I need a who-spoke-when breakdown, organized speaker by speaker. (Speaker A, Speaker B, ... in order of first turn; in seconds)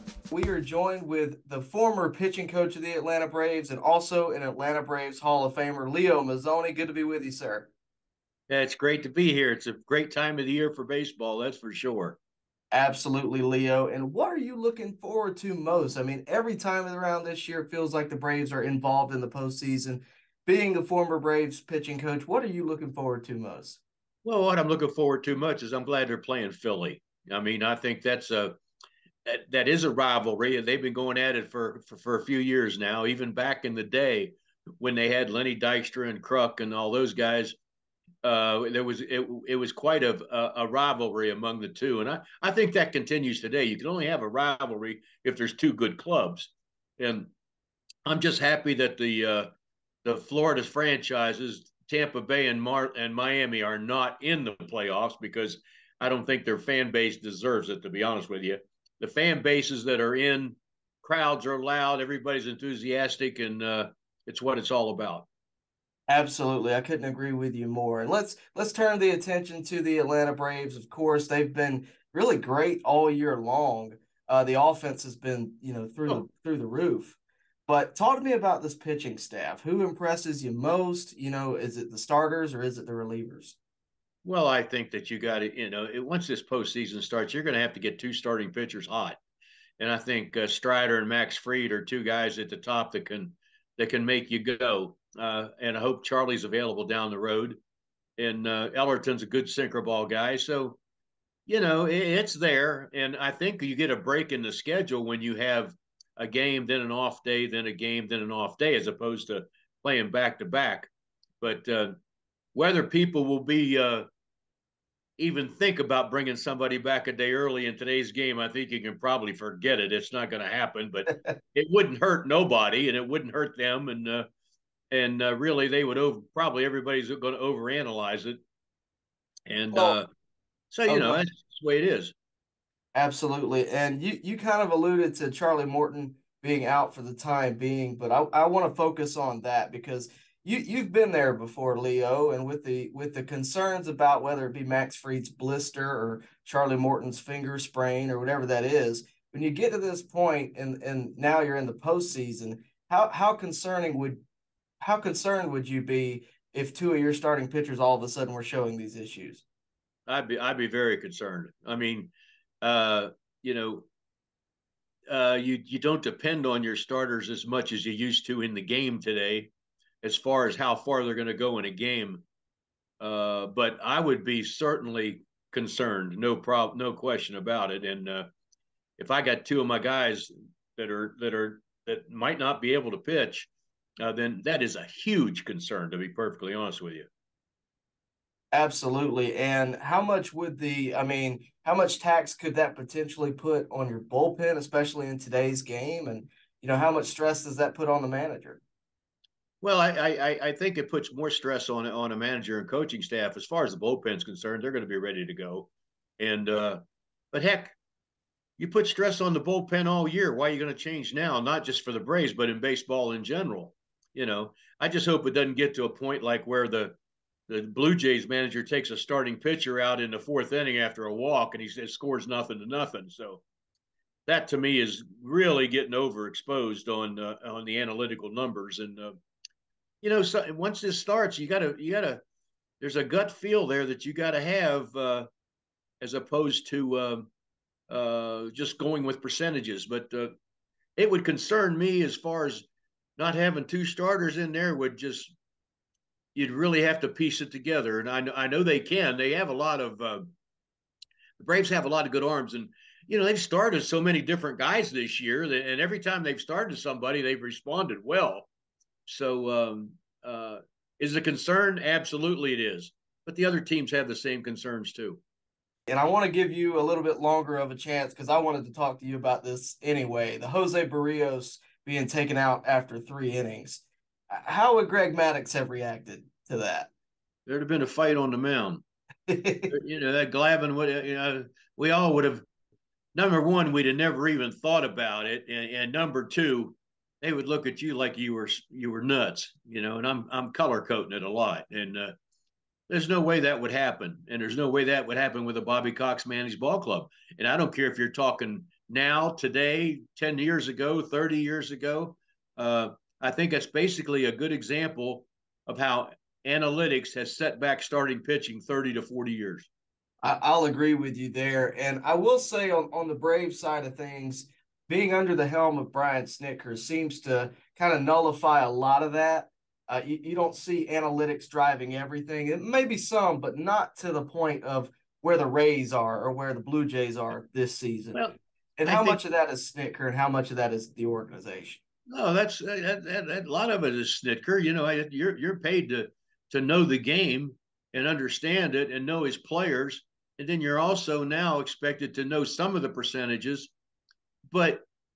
Speaker A: 0.3-7.7, 12.7-23.8, 66.1-77.2, 77.7-83.5, 130.9-131.2, 132.9-154.2, 154.8-159.4, 188.5-198.6, 265.9-276.9, 279.3-279.7, 310.2-328.2, 328.8-331.8
Speaker B: 8.5-12.2, 24.2-28.6, 29.2-37.5, 38.2-47.3, 48.0-49.5, 50.0-65.3, 84.2-89.2, 89.8-97.6, 98.2-100.8, 101.5-110.9, 111.4-111.9, 112.5-114.0, 115.2-124.2, 124.9-128.4, 129.5-130.1, 130.7-132.1, 160.1-163.8, 165.1-172.2, 173.0-178.2, 179.0-183.5, 184.0-187.1, 199.6-206.8, 207.3-207.7, 208.6-216.9, 217.5-223.4, 224.2-229.2, 230.0-232.2, 232.8-235.2, 236.0-237.3, 237.9-240.3, 241.0-245.3, 246.3-250.3, 251.4-258.5, 259.1-265.2, 277.4-278.8, 279.7-282.4, 283.1-292.1, 292.9-309.7, 328.1-329.2, 332.1-343.7, 344.5-344.8